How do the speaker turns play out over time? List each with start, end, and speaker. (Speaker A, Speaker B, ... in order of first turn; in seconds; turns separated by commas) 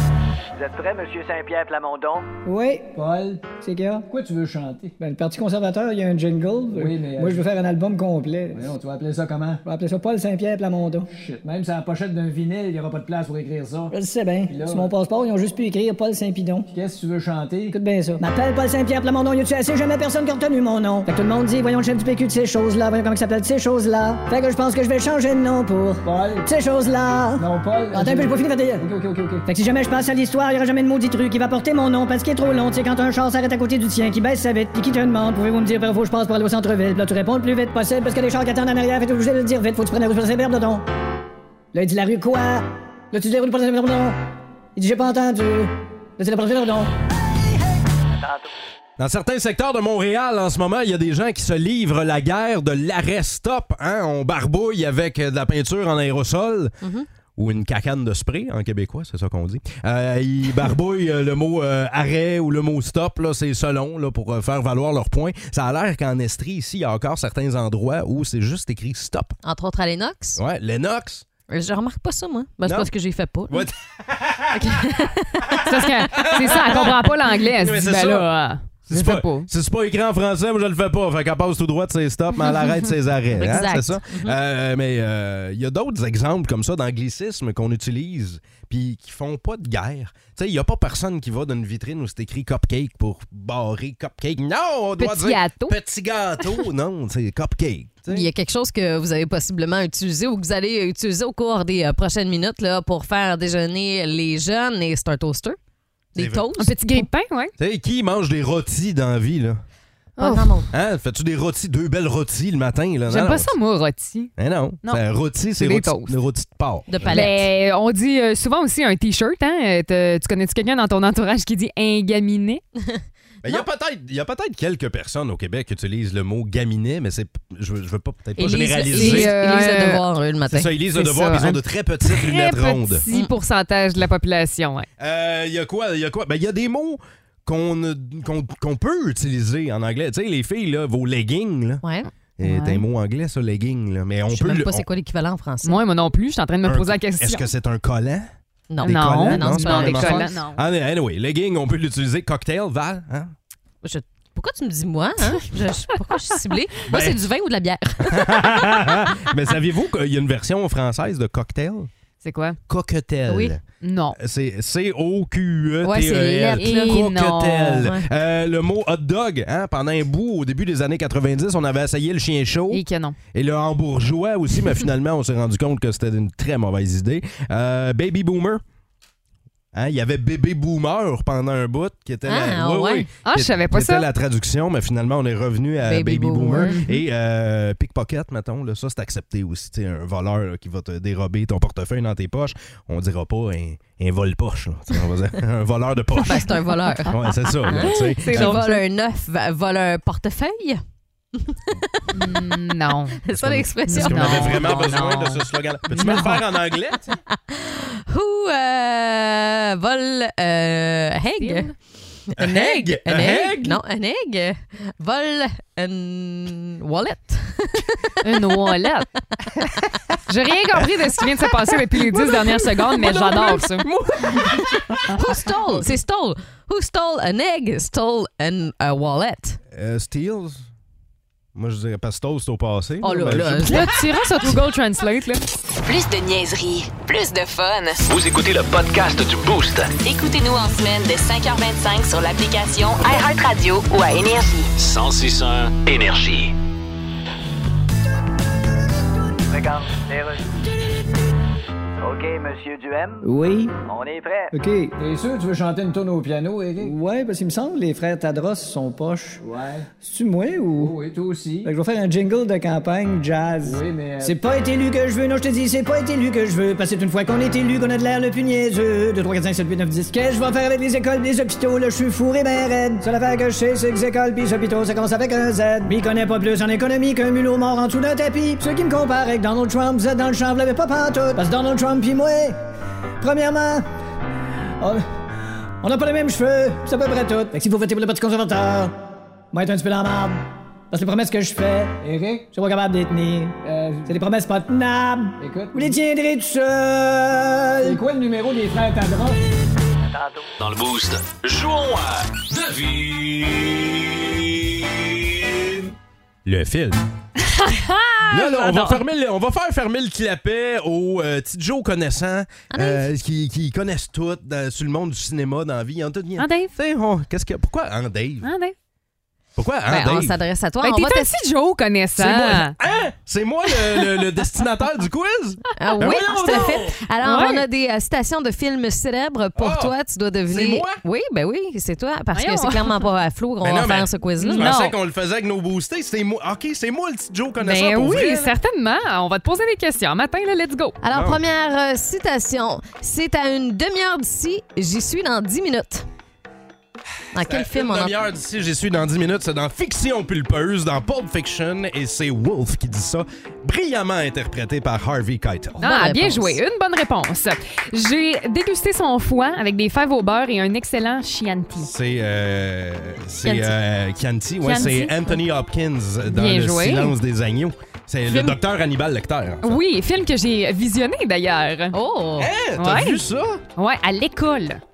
Speaker A: 0.6-2.3, Speaker B: 2.4-2.9, Speaker C: 2.9-3.5, Speaker B: 3.5-4.0, Speaker C: 4.1-4.9, Speaker B: 5.0-8.7, Speaker C: 6.7-7.5, Speaker C: 8.5-9.6, Speaker B: 9.6-11.1, Speaker C: 11.1-13.9, Speaker B: 13.9-16.7, Speaker C: 14.5-14.9, Speaker C: 16.7-17.8, Speaker B: 17.7-28.9, Speaker C: 26.0-26.5, Speaker C: 27.4-29.4, Speaker B: 29.4-40.8, Speaker B: 41.7-44.1, Speaker B: 44.7-46.9, Speaker A: 48.1-48.5, Speaker D: 49.0-56.7, Speaker E: 56.8-57.1, Speaker D: 57.4-69.4, Speaker E: 69.4-70.4, Speaker D: 70.3-71.2, Speaker E: 71.5-73.7, Speaker D: 72.6-72.9, Speaker D: 73.5-78.3, Speaker E: 74.6-75.6, Speaker F: 75.6-79.5, Speaker D: 78.9-98.3, Speaker E: 83.3-84.3, Speaker F: 95.0-95.8, Speaker E: 98.1-105.6, Speaker E: 106.1-107.1, Speaker D: 106.2-106.5, Speaker F: 106.6-107.5, Speaker D: 107.6-109.6, Speaker F: 110.2-110.6, Speaker E: 110.2-110.7, Speaker D: 110.7-113.5, Speaker F: 113.1-114.3, Speaker D: 114.4-117.3, Speaker F: 115.6-116.2, Speaker E: 116.9-117.5, Speaker F: 117.1-122.6, Speaker D: 123.4-129.3, Speaker E: 128.4-130.7, Speaker F: 128.9-130.0, Speaker D: 130.5-133.0, Speaker F: 130.9-134.9, Speaker D: 135.0-141.8, Speaker E: 141.8-142.1, Speaker D: 142.4-144.9, Speaker F: 142.4-142.8, Speaker E: 144.3-145.8, Speaker F: 145.6-147.5, Speaker D: 146.6-148.3, Speaker E: 148.7-150.3, Speaker D: 148.8-153.3, Speaker F: 148.8-150.6, Speaker E: 153.8-159.0, Speaker D: 156.9-157.2, Speaker D: 158.0-161.9, Speaker F: 162.2-162.6, Speaker D: 162.7-163.6, Speaker E: 163.3-163.6, Speaker F: 163.8-164.2, Speaker D: 164.1-178.6, Speaker E: 165.8-167.0, Speaker F: 166.6-167.9, Speaker E: 167.8-168.1, Speaker F: 172.7-173.2, Speaker D: 179.7-196.5, Speaker E: 182.2-183.1, Speaker F: 183.2-184.1, Speaker E: 185.8-186.7, Speaker F: 186.6-187.0, Speaker E: 196.2-200.8, Speaker D: 197.0-198.6, Speaker F: 197.7-198.8, Speaker E: 201.3-202.1, Speaker F: 202.1-203.2, Speaker E: 203.2-204.9, Speaker D: 203.3-207.2, Speaker F: 203.9-206.4, Speaker E: 206.0-206.4, Speaker E: 207.3-211.7, Speaker F: 211.4-211.7, Speaker E: 212.3-218.2, Speaker D: 212.4-213.8, Speaker F: 218.2-219.1, Speaker F: 220.3-223.9, Speaker D: 222.1-225.1, Speaker E: 224.3-229.6, Speaker D: 229.7-230.7, Speaker D: 231.5-233.9, Speaker E: 233.0-233.9, Speaker F: 233.7-235.4, Speaker G: 235.8-238.1, Speaker H: 238.1-239.9, Speaker G: 239.9-244.7, Speaker H: 244.8-246.5, Speaker A: 249.5-250.5, Speaker A: 252.0-253.3, Speaker B: 253.2-253.8, Speaker A: 253.8-254.5, Speaker B: 254.5-254.9, Speaker C: 255.0-256.9, Speaker B: 256.8-259.4, Speaker C: 259.4-259.9, Speaker B: 260.0-260.9, Speaker C: 260.8-261.7, Speaker B: 261.6-282.6, Speaker C: 263.6-264.4, Speaker B: 283.2-283.9, Speaker B: 285.8-288.9, Speaker B: 289.5-292.0, Speaker C: 292.0-292.5, Speaker B: 292.5-298.0, Speaker C: 293.6-294.2, Speaker C: 295.4-296.0, Speaker C: 297.8-299.4, Speaker A: 300.0-300.5, Speaker H: 300.6-304.4, Speaker D: 306.4-307.0, Speaker F: 307.4-309.0, Speaker D: 308.3-318.5, Speaker E: 312.7-313.1, Speaker F: 316.4-316.7, Speaker F: 318.4-318.7, Speaker D: 319.6-320.4, Speaker E: 319.9-321.3, Speaker F: 320.8-322.8, Speaker D: 322.2-327.0, Speaker E: 325.8-334.7, Speaker F: 326.0-326.2, Speaker F: 327.2-327.6, Speaker D: 329.6-329.9, Speaker D: 330.5-331.0, Speaker F: 332.3-333.0, Speaker D: 333.6-338.5, Speaker F: 334.4-334.9, Speaker F: 337.6-341.0, Speaker E: 341.0-346.1, Speaker D: 341.1-341.4, Speaker E: 347.3-348.1, Speaker D: 347.4-355.8, Speaker F: 355.8-361.9, Speaker E: 355.8-356.6, Speaker D: 361.8-369.8, Speaker E: 363.4-363.7, Speaker F: 364.6-365.4, Speaker F: 366.3-367.1, Speaker F: 368.3-368.6, Speaker F: 369.6-371.9, Speaker E: 371.9-372.5, Speaker D: 372.4-373.6, Speaker F: 372.8-373.2, Speaker F: 373.8-374.8